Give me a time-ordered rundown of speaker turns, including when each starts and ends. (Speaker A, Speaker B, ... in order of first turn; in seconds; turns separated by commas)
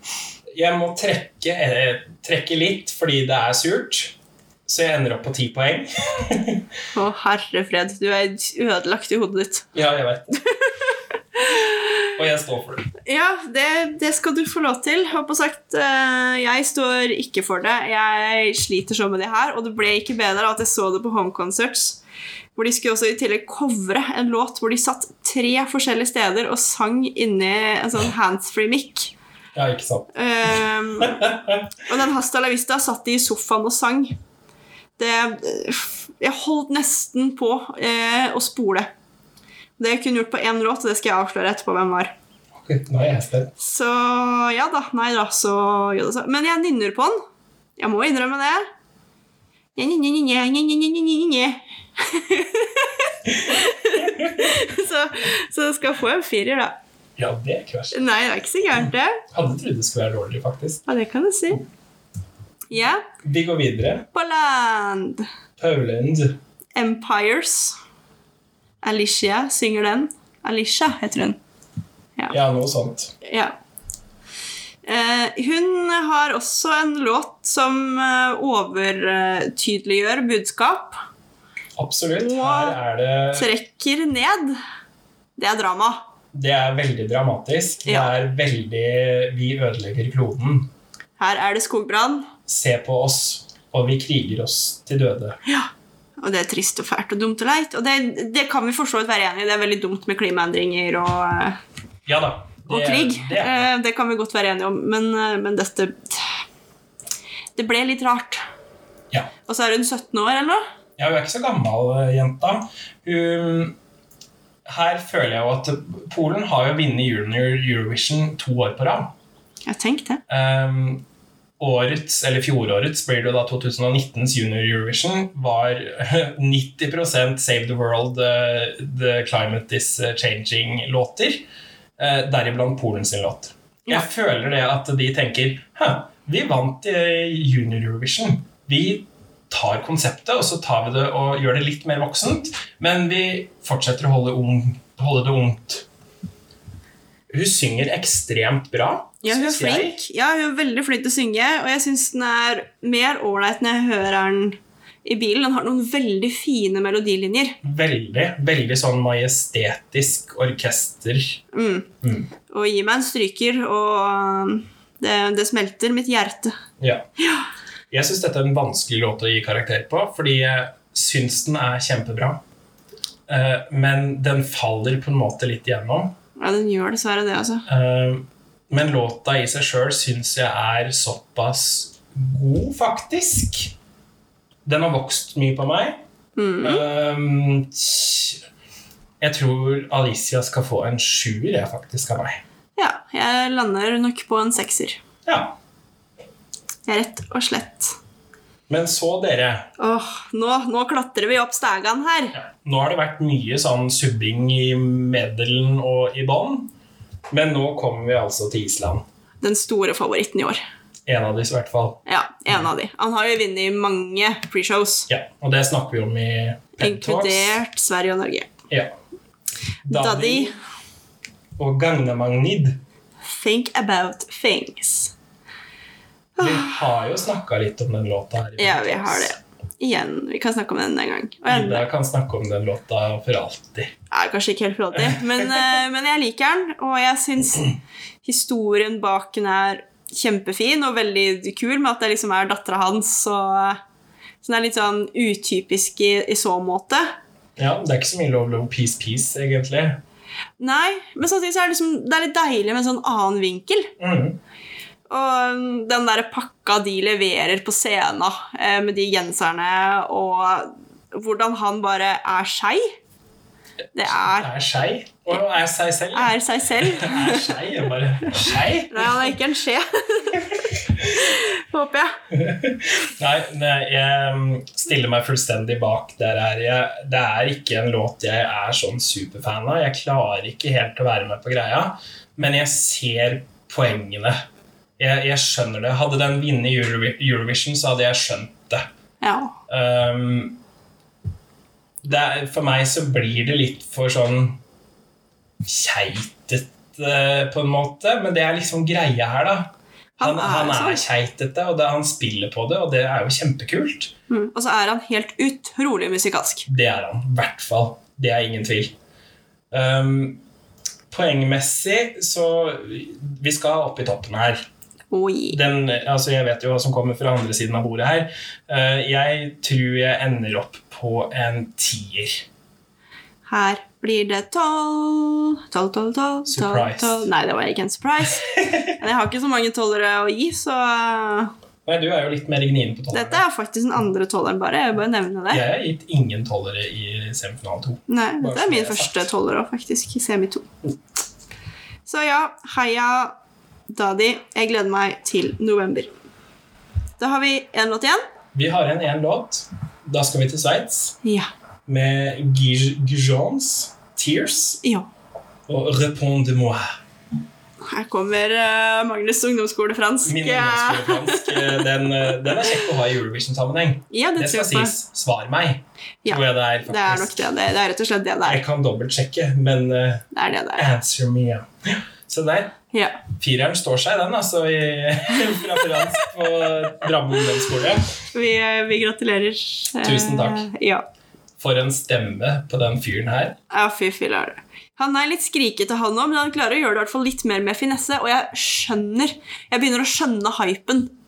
Speaker A: 0.5-6.7, Speaker B: 6.9-9.7, Speaker A: 9.7-10.4, Speaker B: 10.4-11.9, Speaker A: 12.2-12.9, Speaker B: 13.1-22.0, Speaker B: 22.6-29.1, Speaker A: 29.6-30.1, Speaker B: 30.1-31.3, Speaker A: 31.0-31.7, Speaker B: 31.8-34.1, Speaker B: 35.0-38.9, Speaker B: 39.8-42.1, Speaker A: 42.5-43.5, Speaker B: 43.6-47.2, Speaker B: 47.8-48.6, Speaker B: 49.8-56.8, Speaker A: 53.3-54.6, Speaker A: 57.2-58.0, Speaker B: 57.9-59.2, Speaker A: 59.3-60.9, Speaker B: 60.9-61.6, Speaker B: 62.7-63.0, Speaker A: 63.2-64.1, Speaker B: 64.1-65.3, Speaker A: 65.6-66.4, Speaker B: 66.8-67.8, Speaker B: 68.8-71.4, Speaker A: 72.3-73.2, Speaker B: 73.2-73.5, Speaker B: 74.8-81.0, Speaker A: 81.8-83.5, Speaker B: 82.2-82.8, Speaker B: 83.3-84.6, Speaker B: 85.4-86.0, Speaker A: 86.3-90.7, Speaker B: 87.8-88.1, Speaker B: 91.2-92.3, Speaker A: 92.5-95.4, Speaker B: 96.2-101.6, Speaker A: 102.0-103.7, Speaker B: 102.7-106.3, Speaker B: 107.6-108.4, Speaker B: 109.5-110.6, Speaker A: 111.0-113.8, Speaker A: 114.7-119.1, Speaker B: 119.7-120.2, Speaker A: 120.3-121.1, Speaker A: 121.6-131.5, Speaker A: 132.0-145.9, Speaker A: 147.3-150.0, Speaker B: 149.2-157.6, Speaker A: 157.6-161.4, Speaker B: 161.5-161.9, Speaker A: 162.0-162.3, Speaker B: 162.5-166.6, Speaker A: 166.8-167.1, Speaker B: 167.2-167.5, Speaker A: 167.9-172.4, Speaker A: 173.3-176.1, Speaker B: 176.4-177.7, Speaker A: 177.7-183.7, Speaker A: 184.7-186.0, Speaker B: 186.4-186.8, Speaker A: 186.6-188.4, Speaker A: 189.2-192.4, Speaker B: 192.8-195.0, Speaker A: 195.3-195.6, Speaker B: 196.9-198.0, Speaker A: 198.7-199.7, Speaker B: 199.8-202.4, Speaker A: 202.3-206.7, Speaker A: 207.3-209.1, Speaker B: 209.4-210.6, Speaker A: 211.1-212.0, Speaker B: 212.1-215.1, Speaker A: 215.1-217.6, Speaker B: 216.8-218.5, Speaker A: 219.9-220.6, Speaker B: 219.9-220.6, Speaker A: 221.6-222.8, Speaker B: 223.3-225.1, Speaker B: 226.4-226.8, Speaker A: 226.4-229.3, Speaker B: 228.6-231.8, Speaker A: 231.5-233.9, Speaker B: 234.1-243.8, Speaker A: 235.0-235.8, Speaker B: 244.4-247.1, Speaker A: 247.6-250.0, Speaker B: 250.6-253.9, Speaker A: 254.0-254.4, Speaker B: 255.1-262.9, Speaker B: 263.9-264.5, Speaker A: 264.0-269.3, Speaker B: 266.1-267.6, Speaker B: 268.9-270.5, Speaker A: 270.3-271.3, Speaker B: 271.1-272.1, Speaker A: 272.3-284.4, Speaker A: 285.0-288.9, Speaker B: 289.2-289.6, Speaker A: 289.7-290.6, Speaker A: 292.0-294.6, Speaker A: 295.6-304.1, Speaker B: 300.2-301.0, Speaker B: 304.3-306.7, Speaker A: 306.7-309.0, Speaker A: 309.7-310.4, Speaker A: 311.1-314.6, Speaker B: 315.1-315.6, Speaker A: 315.5-322.4, Speaker B: 323.5-331.5, Speaker A: 326.5-327.3, Speaker A: 331.9-333.4, Speaker B: 333.1-335.6, Speaker A: 335.5-339.2, Speaker B: 338.1-340.7, Speaker B: 342.1-343.4, Speaker B: 343.9-346.1, Speaker B: 347.2-348.2, Speaker A: 348.5-351.2, Speaker A: 351.9-354.8, Speaker B: 354.8-355.1, Speaker A: 355.7-356.9, Speaker B: 357.8-361.8, Speaker A: 360.2-367.4, Speaker B: 364.1-364.9, Speaker B: 366.2-368.6, Speaker A: 368.5-372.8, Speaker B: 370.3-370.9, Speaker B: 372.9-373.2, Speaker A: 373.4-378.1, Speaker B: 378.3-381.1, Speaker A: 380.0-380.7, Speaker A: 381.6-383.6, Speaker B: 383.7-391.1